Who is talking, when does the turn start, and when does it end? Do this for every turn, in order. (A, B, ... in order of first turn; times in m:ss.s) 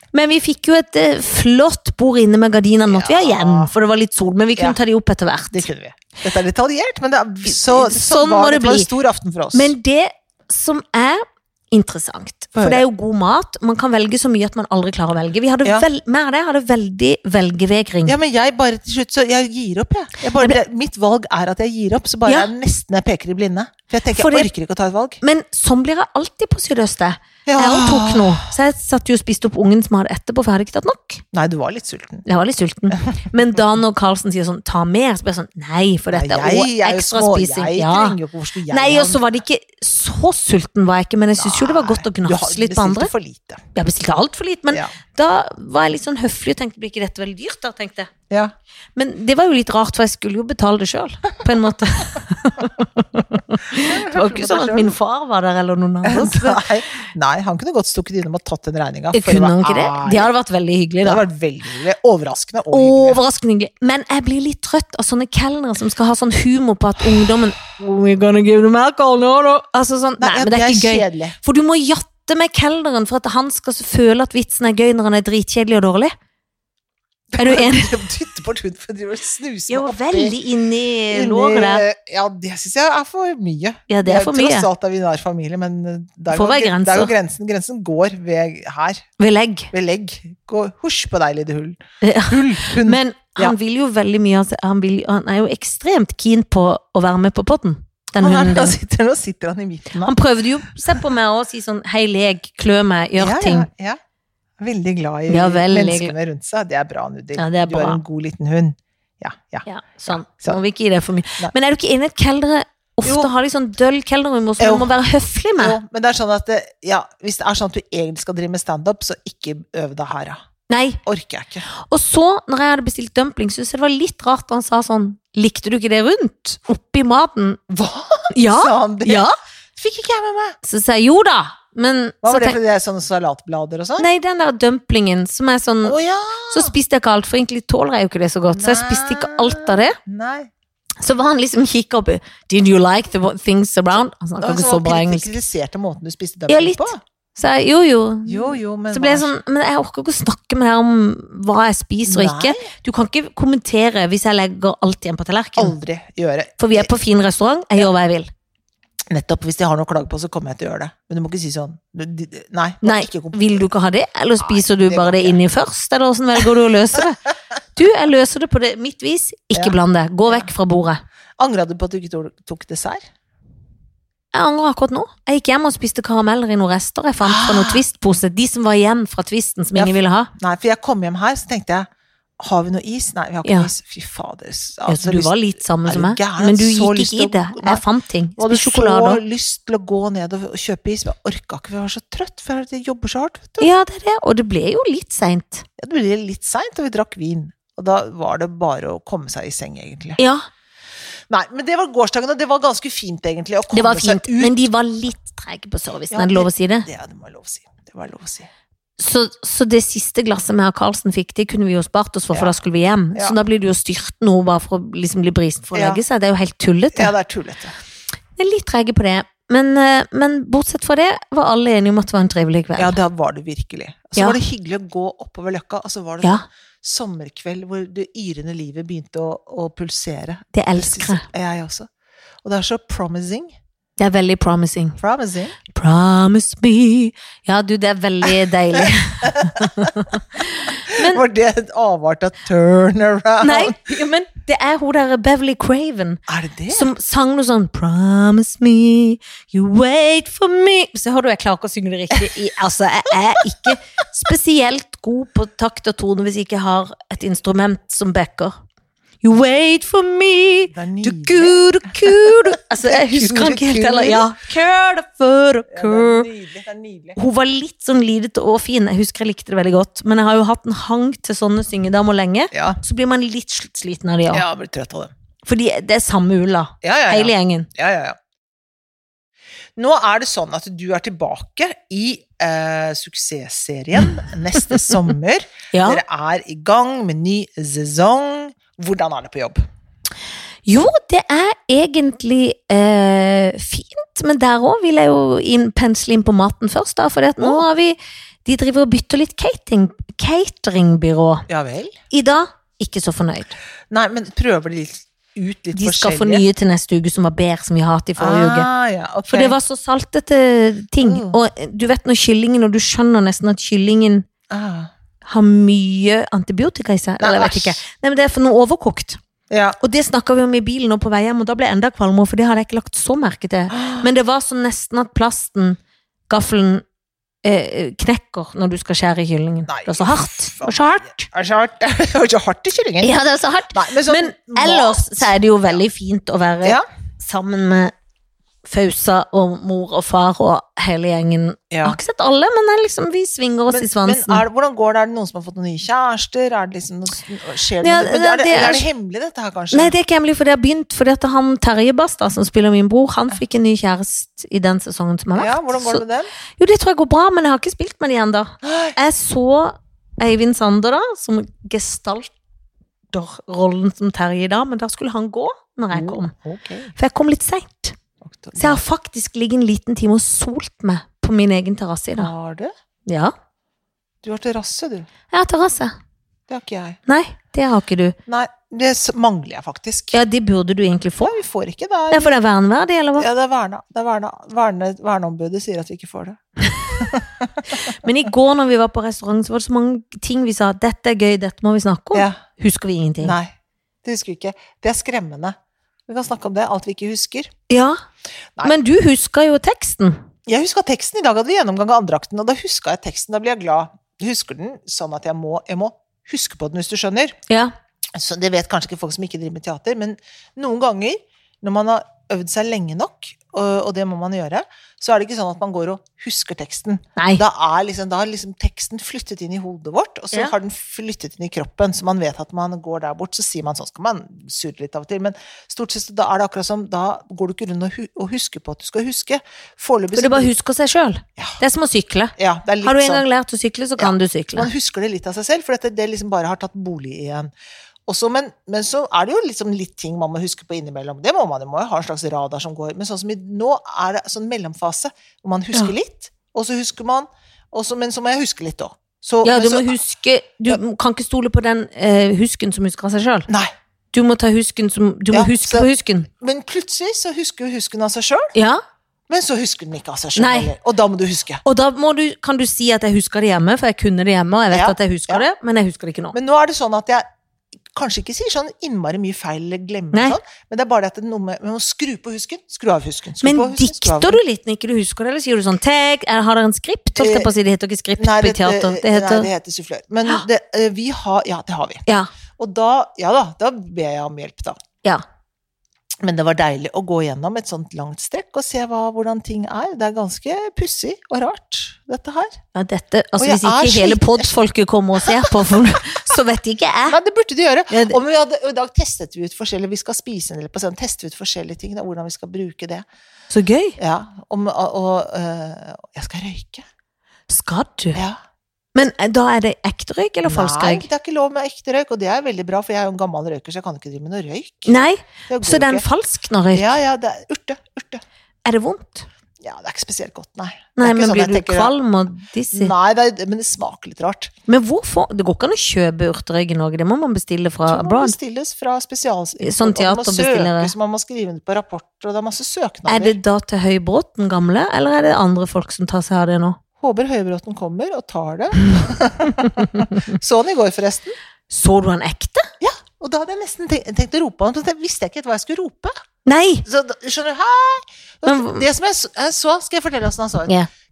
0:00.1-0:05.7 A
0:02.9-0:03.7 B
0:05.5-0:09.7 B
0:07.5-0:08.9 A
0:09.5-0:18.2 A
0:12.6-0:12.8 B
0:18.1-0:25.2 B
0:24.1-0:24.5 A
0:25.2-0:31.2 A
0:27.5-0:28.5 B
0:31.3-0:32.2 B
0:32.2-0:38.2 A
0:36.1-0:39.2 B
0:38.7-0:43.1 A
0:41.4-0:43.6 B
0:43.7-0:48.1 A
0:49.0-0:56.6 A
0:53.7-0:55.0 B
0:56.0-1:00.3 B
0:59.1-1:01.2 A
1:01.0-1:03.2 B
1:02.7-1:16.1 A
1:10.2-1:11.4 B
1:17.3-1:20.4 B
1:17.4-1:18.0 A
1:19.7-1:21.8 A
1:21.1-1:29.1 B
1:23.9-1:24.7 A
1:26.3-1:27.1 A
1:29.2-1:29.7 A
1:29.7-1:33.6 B
1:32.0-1:38.8 A
1:38.2-1:40.2 B
1:40.0-1:43.7 A
1:43.2-1:44.0 B
1:44.6-1:50.6 B
1:45.3-1:46.1 A
1:47.4-1:48.0 A
1:49.6-1:55.8 A
1:53.0-1:53.3 B
1:54.6-1:54.9 B
1:55.6-2:00.4 B
2:00.7-2:01.0 A
2:01.0-2:01.7 B
2:01.7-2:07.6 A
2:07.7-2:10.6 B
2:08.3-2:09.4 A
2:10.6-2:12.6 A
2:12.2-2:14.1 B
2:14.0-2:16.0 A
2:15.8-2:16.8 B
2:16.5-2:20.0 A
2:18.5-2:20.5 B
2:21.0-2:25.3 A
2:24.4-2:27.0 B
2:26.5-2:35.8 A
2:28.3-2:29.3 B
2:32.0-2:32.7 B
2:35.6-2:36.9 B
2:36.6-2:38.3 A
2:39.1-2:43.7 B
2:42.8-2:47.2 A
2:44.4-2:45.4 B
2:47.8-2:51.0 A
2:51.4-2:53.1 B
2:54.3-3:00.3 A
2:57.2-2:57.8 B
2:59.8-3:01.9 B
3:02.4-3:07.8 B
3:03.4-3:03.7 A
3:04.9-3:09.2 A
3:08.4-3:13.7 B
3:13.6-3:15.7 A
3:15.8-3:20.2 B
3:20.2-3:20.5 A
3:21.3-3:24.6 B
3:23.7-3:26.9 A
3:26.1-3:28.5 B
3:29.0-3:37.1 A
3:35.7-3:36.0 B
3:36.9-3:37.8 B
3:38.4-3:43.0 A
3:42.8-3:51.9 B
3:50.5-3:51.3 A
3:52.4-3:53.6 B
3:54.0-3:55.0 A
3:55.0-3:55.6 B
3:55.7-4:01.2 A
3:58.8-4:00.2 B
4:00.9-4:03.8 B
4:03.4-4:18.6 A
4:06.3-4:06.9 B
4:19.2-4:26.3 A
4:20.7-4:24.3 B
4:25.7-4:27.2 B
4:27.2-4:34.4 A
4:32.5-4:32.8 B
4:34.3-4:35.1 B
4:35.5-4:37.7 A
4:36.8-4:38.2 B
4:39.8-4:49.6 B
4:45.7-4:46.0 A
4:50.7-5:01.5 A
4:57.4-4:57.6 B
5:01.5-5:02.0 B
5:02.1-5:03.6 A
5:03.9-5:06.4 B
5:05.8-5:08.7 A
5:08.2-5:09.6 B
5:09.3-5:14.3 A
5:11.0-5:11.4 B
5:14.5-5:14.9 B
5:15.2-5:19.2 A
5:17.2-5:17.8 B
5:19.5-5:19.8 B
5:19.8-5:26.8 A
5:23.7-5:24.1 B
5:27.4-5:31.3 A
5:29.7-5:33.1 B
5:33.0-5:37.9 A
5:33.7-5:35.8 B
5:38.6-5:44.4 A
5:41.7-5:42.0 B
5:43.7-5:49.9 B
5:47.8-5:48.8 A
5:49.7-5:56.0 A
5:55.4-5:56.3 B
5:56.6-6:02.3 A
5:58.6-5:59.0 B
6:03.1-6:06.3 A
6:05.9-6:06.9 B
6:07.0-6:08.0 A
6:08.2-6:08.8 B
6:08.6-6:12.3 A
6:12.2-6:12.7 B
6:13.1-6:13.3 A
6:14.2-6:15.1 B
6:15.3-6:16.0 A
6:16.5-6:17.0 B
6:17.1-6:18.2 A
6:18.3-6:20.2 B
6:20.1-6:21.3 A
6:21.2-6:22.4 B
6:22.1-6:23.3 A
6:23.2-6:26.4 B
6:27.0-6:27.6 B
6:27.8-6:33.4 A
6:33.2-6:33.5 B
6:34.0-6:35.6 B
6:36.1-6:37.5 B
6:37.7-6:38.0 A
6:38.6-6:40.2 A
6:40.5-6:47.4 B
6:48.2-7:10.5 B
6:57.2-6:57.4 A
7:10.2-7:14.7 A
7:12.4-7:13.3 B
7:14.0-7:17.5 B
7:18.1-7:30.0 B
7:29.4-7:33.5 A
7:34.1-7:36.3 A
7:35.3-7:38.5 B
7:38.6-7:38.8 A
7:39.3-7:41.6 B
7:40.4-7:40.7 A
7:41.6-7:46.4 A
7:44.7-7:45.5 B
7:46.3-7:47.3 B
7:47.9-7:54.4 B
7:53.4-7:59.5 A
7:57.2-7:57.5 B
7:58.2-8:02.0 B
8:02.6-8:04.8 B
8:06.2-8:12.6 B
8:12.7-8:17.2 A
8:13.4-8:14.6 B
8:15.2-8:15.8 B
8:17.1-8:23.1 B
8:17.9-8:18.2 A
8:23.5-8:24.0 A
8:24.0-8:26.8 B
8:27.5-8:28.2 A
8:29.0-8:31.1 A
8:30.4-8:36.1 B
8:34.9-8:36.9 A
8:36.7-8:38.2 B
8:38.6-8:39.3 A
8:39.6-8:41.9 B
8:41.0-8:42.9 A
8:42.7-8:44.5 B
8:44.7-8:48.4 A
8:47.9-8:53.4 B
8:49.6-8:50.9 A
8:53.1-8:56.8 A
8:57.0-9:01.4 B
9:01.7-9:02.7 A
9:02.8-9:06.1 B
9:06.5-9:06.8 A
9:06.8-9:10.7 B
9:08.4-9:08.9 A